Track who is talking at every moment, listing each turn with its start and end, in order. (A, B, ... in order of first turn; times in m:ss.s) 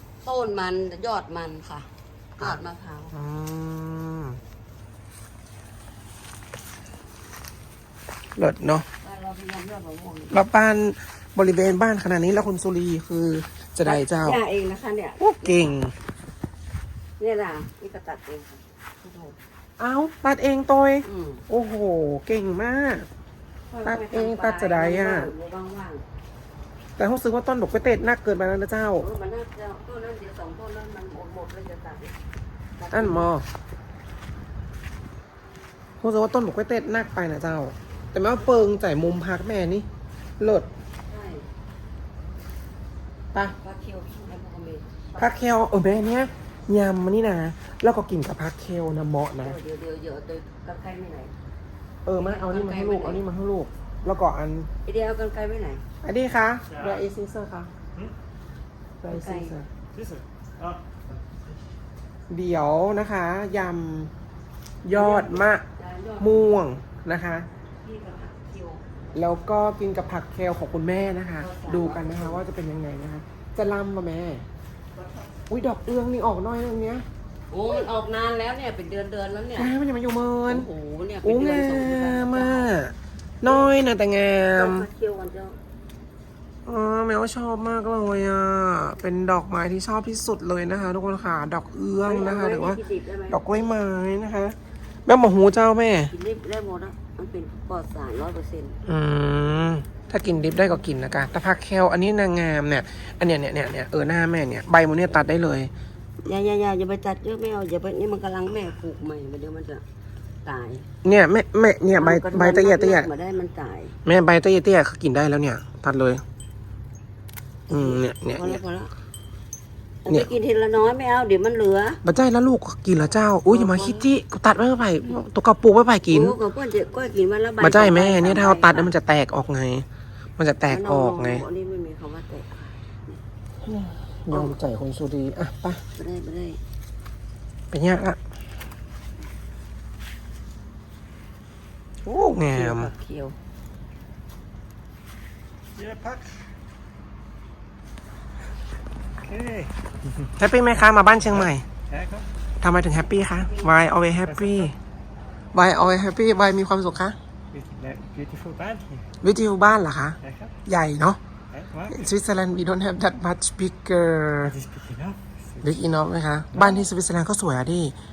0:00.2-0:03.1 A
0:02.4-0:04.4 B
0:08.4-0:08.8 B
0:09.0-0:10.4 A
0:10.3-0:14.4 B
0:13.8-0:15.8 A
0:15.2-0:15.9 B
0:17.2-0:19.4 A
0:19.8-0:23.1 B
0:21.0-0:21.4 A
0:23.7-0:26.0 A
0:23.8-0:25.3 B
0:27.0-0:29.0 B
0:29.0-0:32.2 A
0:32.8-0:33.3 A
0:32.9-0:33.4 B
0:36.0-0:39.9 B
0:40.4-0:40.7 B
0:41.0-0:41.5 A
0:43.6-0:45.3 A
0:45.2-0:49.6 B
0:49.4-0:51.3 A
0:52.0-0:54.7 B
0:52.2-0:53.2 A
0:54.8-0:55.8 A
0:56.0-0:57.7 B
0:56.7-0:57.0 C
0:59.0-0:59.7 B
0:59.1-0:59.6 A
0:59.9-1:01.0 C
1:02.3-1:04.1 B
1:04.8-1:05.6 B
1:04.9-1:06.6 A
1:06.2-1:07.5 B
1:07.8-1:08.8 A
1:09.1-1:14.4 B
1:11.4-1:12.4 A
1:14.9-1:15.3 A
1:15.5-1:17.0 B
1:17.5-1:19.7 A
1:19.6-1:20.7 B
1:20.5-1:22.8 A
1:21.2-1:24.9 B
1:23.4-1:23.8 A
1:24.5-1:25.6 A
1:26.6-1:34.6 B
1:32.0-1:33.6 A
1:35.1-1:36.1 B
1:36.1-1:38.8 A
1:38.8-1:45.7 B
1:46.2-1:49.8 A
1:50.4-1:50.9 A
1:51.0-1:53.1 B
1:51.9-1:54.0 A
1:54.0-1:56.2 B
1:57.7-1:58.6 B
1:57.7-1:58.9 A
2:00.0-2:02.0 A
2:02.0-2:06.4 B
2:03.5-2:04.1 A
2:06.1-2:09.0 A
2:07.6-2:09.8 B
2:10.4-2:11.4 B
2:10.6-2:13.2 A
2:13.6-2:15.8 B
2:15.9-2:16.6 A
2:17.7-2:18.2 B
2:22.0-2:22.9 B
2:22.4-2:23.4 A
2:25.7-2:26.5 C
2:29.2-2:29.7 C
2:30.4-2:31.6 B
2:31.3-2:32.3 C
2:32.6-2:34.7 B
2:34.2-2:34.7 C
2:35.5-2:37.2 B
2:37.5-2:39.0 C
2:39.2-2:41.2 B
2:40.2-2:40.5 C
2:41.5-2:42.1 C
2:41.9-2:44.6 B
2:44.4-2:45.7 C
2:45.6-2:48.0 B
2:46.5-2:46.9 C